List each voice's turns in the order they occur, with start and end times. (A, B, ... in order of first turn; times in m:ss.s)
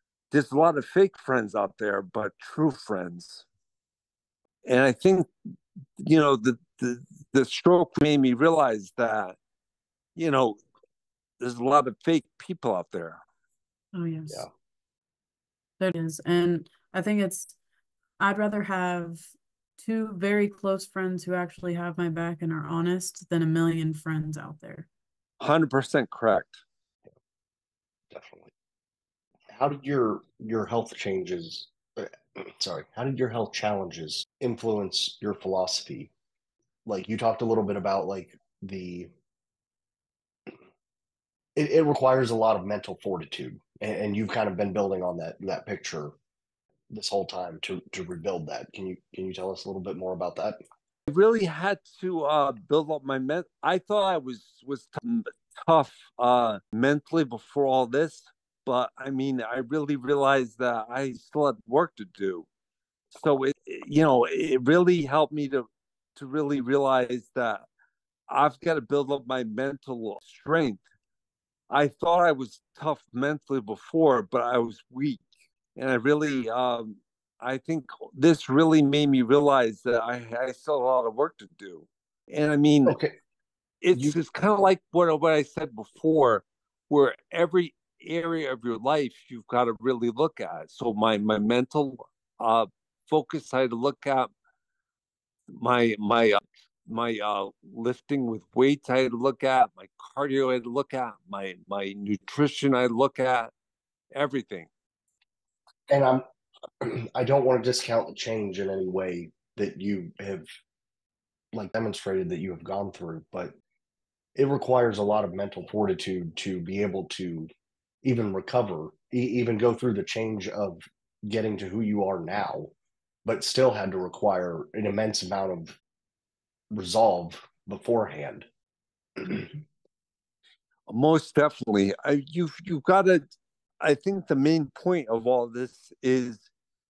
0:00.3-0:03.4 A
0:04.6-0:05.3 A
0:06.0-0:09.4 A
0:10.2-0:10.6 A
0:11.4-0:13.2 A
0:13.9-0:14.4 B
0:15.8-0:17.6 B
0:18.2-0:24.9 B
0:25.4-0:26.6 A
0:28.1-0:28.5 C
0:29.5-0:36.1 C
0:36.8-0:39.1 C
0:41.6-0:46.1 C
0:46.9-0:50.6 C
0:51.1-1:02.5 A
1:03.1-1:05.6 A
1:06.2-1:07.6 A
1:08.3-1:10.8 A
1:11.7-1:15.2 A
1:15.8-1:23.0 A
1:22.8-1:23.1 C
1:23.8-1:34.3 A
1:35.5-1:43.5 A
1:44.1-1:44.7 A
1:45.9-1:46.2 C
1:46.8-1:50.4 C
1:51.5-1:53.5 C
1:54.4-1:57.5 C
1:58.0-2:02.7 C
2:03.2-2:05.8 C
2:06.7-2:08.5 C
2:09.2-2:09.5 C
2:10.9-2:13.2 A
2:13.8-2:16.5 A